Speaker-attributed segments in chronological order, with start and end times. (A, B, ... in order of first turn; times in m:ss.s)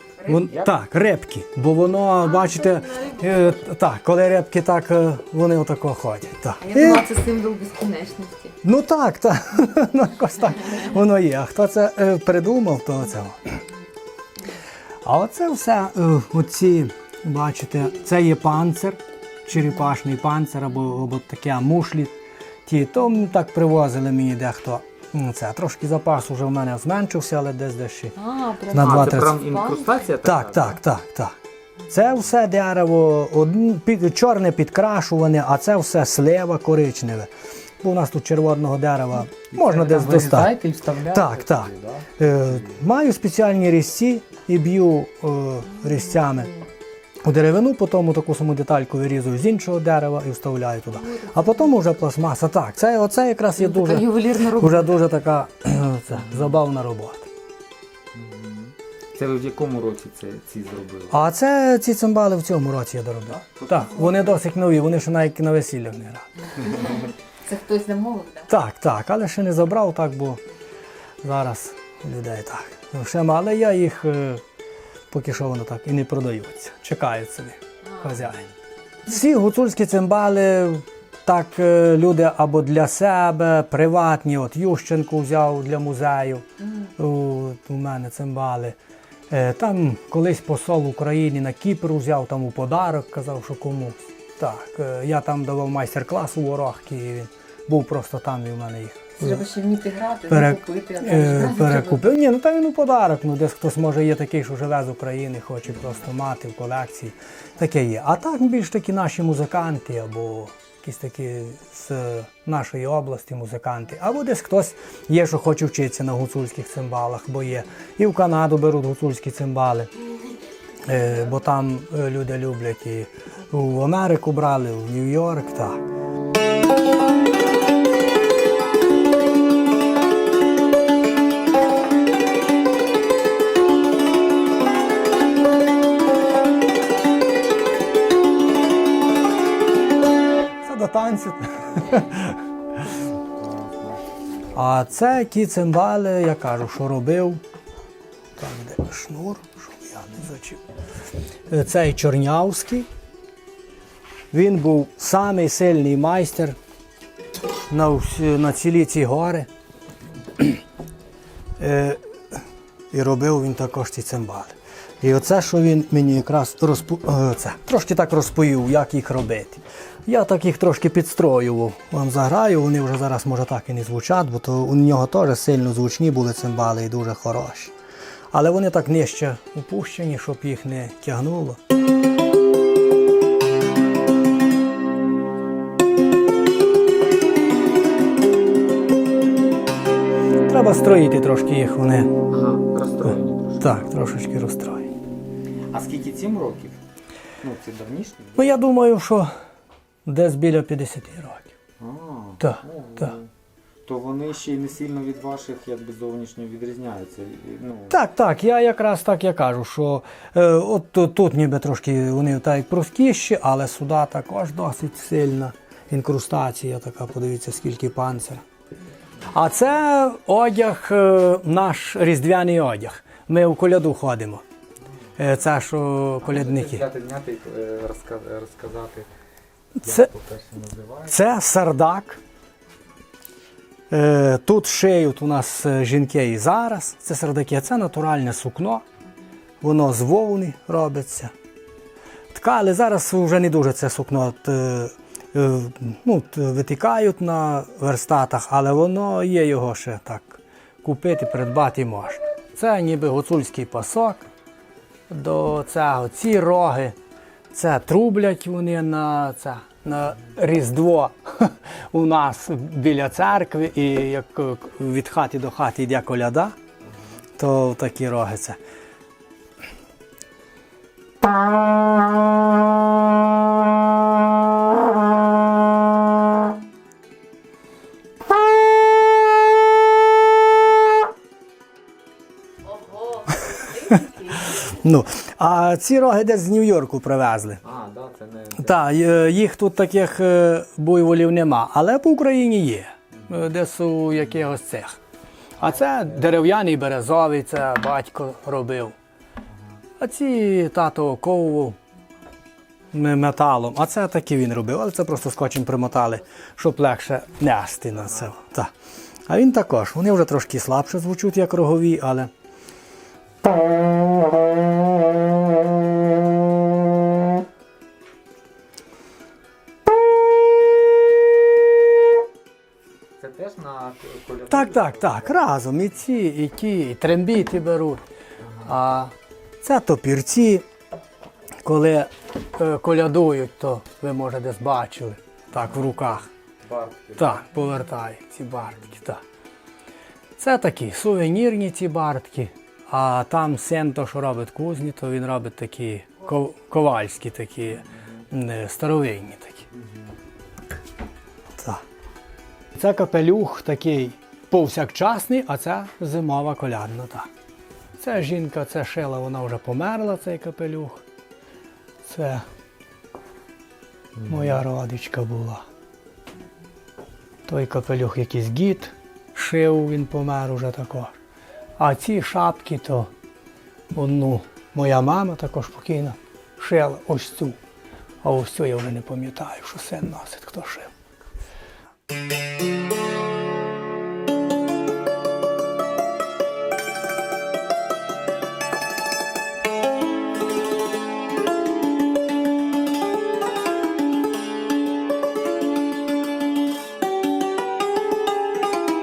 0:00.2-0:00.5 A
0:00.2-0:07.1 B
0:00.4-0:00.8 C
0:02.2-0:03.6 A
0:06.6-0:08.6 A
0:08.6-0:13.6 B
0:15.0-0:28.1 B
0:28.2-0:30.0 A
0:28.7-0:29.4 B
0:28.7-0:30.8 C
0:30.2-0:31.3 B
0:31.9-0:40.5 B
0:39.5-0:42.8 C
0:41.1-0:46.5 B
0:46.2-0:46.6 A
0:47.2-0:57.3 B
0:50.9-0:51.7 A
0:53.6-0:55.0 A
0:56.1-0:56.5 C
0:58.1-1:01.2 C
1:01.1-1:06.5 B
1:03.4-1:04.4 C
1:06.6-1:08.5 A
1:08.5-1:10.4 B
1:11.2-1:14.4 B
1:15.1-1:18.5 B
1:17.8-1:18.2 A
1:19.0-1:26.4 B
1:26.6-1:26.9 A
1:27.0-1:28.8 B
1:29.3-1:39.4 B
1:39.2-1:42.0 A
1:40.3-1:59.9 B
2:00.8-2:05.8 B
2:20.6-2:22.4 B
2:23.3-2:24.8 C
2:24.5-2:27.4 B
2:28.4-2:30.6 B
2:31.5-2:32.9 B
2:34.3-2:36.6 B
2:37.7-2:39.5 B
2:40.4-2:40.6 B
2:41.6-2:57.7 B
2:58.3-3:01.6 B
3:10.5-3:12.1 B
3:12.3-3:13.9 C
3:13.1-3:14.9 B
3:15.7-3:16.8 C
3:17.4-3:18.4 C
3:18.4-3:19.3 B
3:20.0-3:21.5 B
3:21.8-3:23.3 C
3:22.4-3:23.1 B
3:23.8-3:28.0 C
3:27.9-3:38.4 B
3:39.3-3:44.4 B
3:45.2-3:46.8 B
3:46.2-3:49.1 C
3:49.8-3:50.1 B
3:49.8-3:51.2 C
3:51.1-3:52.2 B
3:53.9-3:58.8 B
3:59.6-4:01.3 B
4:02.3-4:14.3 B
4:15.1-4:17.0 B
4:17.5-4:26.6 B
4:27.4-4:28.6 B
4:42.7-4:44.6 A
4:44.5-4:47.6 B
4:47.6-4:49.2 C
4:48.6-4:55.0 B
4:55.6-4:58.9 B
4:56.0-4:56.3 C
5:00.0-5:01.8 B
5:02.9-5:08.7 B
5:09.3-5:12.3 B
5:23.2-5:25.4 C
5:24.5-5:28.0 B
5:28.6-5:30.6 B
5:31.6-5:36.3 B
5:36.6-5:37.4 C
5:37.2-5:39.2 B
5:40.4-5:49.7 B
5:52.7-5:57.3 B
5:58.0-6:01.0 B
6:02.0-6:02.4 B
6:04.2-6:04.6 C
6:04.3-6:05.6 B
6:07.4-6:11.1 B
6:11.8-6:13.1 B
6:13.9-6:17.6 B
6:18.2-6:20.9 B